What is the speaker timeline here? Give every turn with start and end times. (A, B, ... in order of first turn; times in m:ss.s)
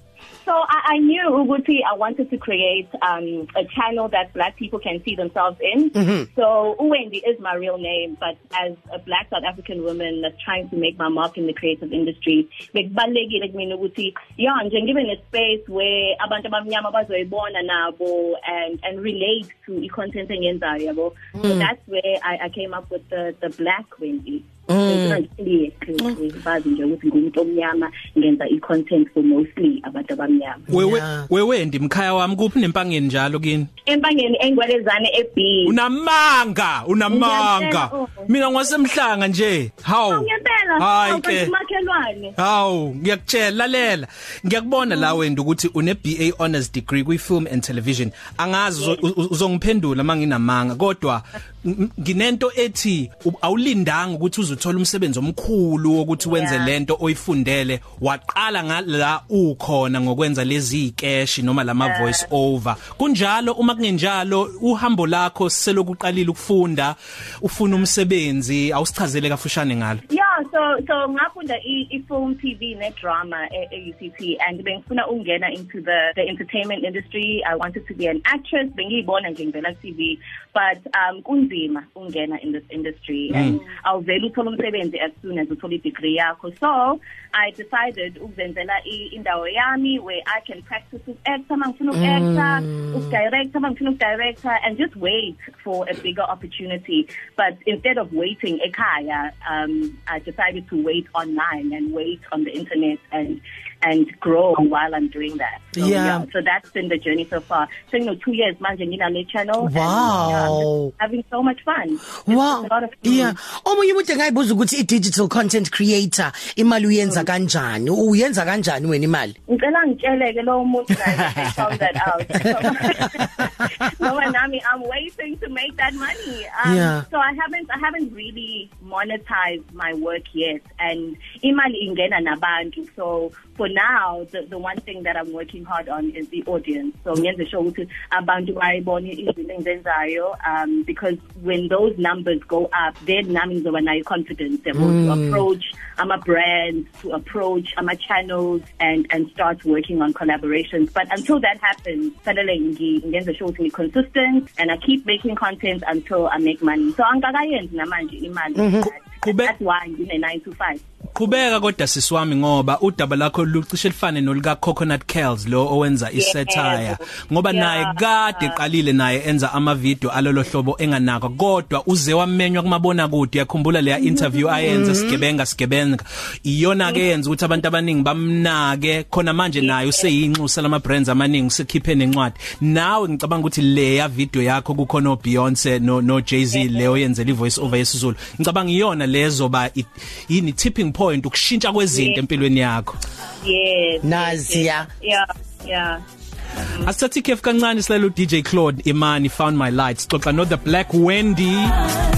0:00.4-0:30.7 A
0:05.9-0:06.3 B
0:21.4-0:21.7 B
0:24.7-0:25.2 B
0:30.7-0:31.3 B
0:30.7-0:33.7 C
0:33.9-0:35.7 A
0:35.6-0:40.3 C
0:37.1-0:38.3 A
0:40.1-0:42.3 A
0:40.8-0:41.5 C
0:42.4-1:10.0 C
0:56.2-0:56.7 A
1:01.8-1:02.2 A
1:10.1-1:53.4 A
1:23.3-1:23.6 C
1:31.9-1:33.2 B
1:45.8-1:46.2 B
1:49.6-1:50.9 B
1:52.2-1:59.3 B
1:57.0-1:57.3 A
1:59.5-2:41.4 A
2:02.4-2:03.5 B
2:06.6-2:07.0 B
2:24.7-2:25.4 B
2:38.6-2:38.9 B
2:39.2-2:39.5 C
2:41.1-3:13.0 C
2:46.2-2:48.5 A
2:54.6-2:55.2 B
2:59.6-3:00.1 A
3:06.5-3:06.9 A
3:11.9-3:12.2 A
3:13.4-3:16.0 A
3:14.0-3:14.9 B
3:16.8-3:21.7 C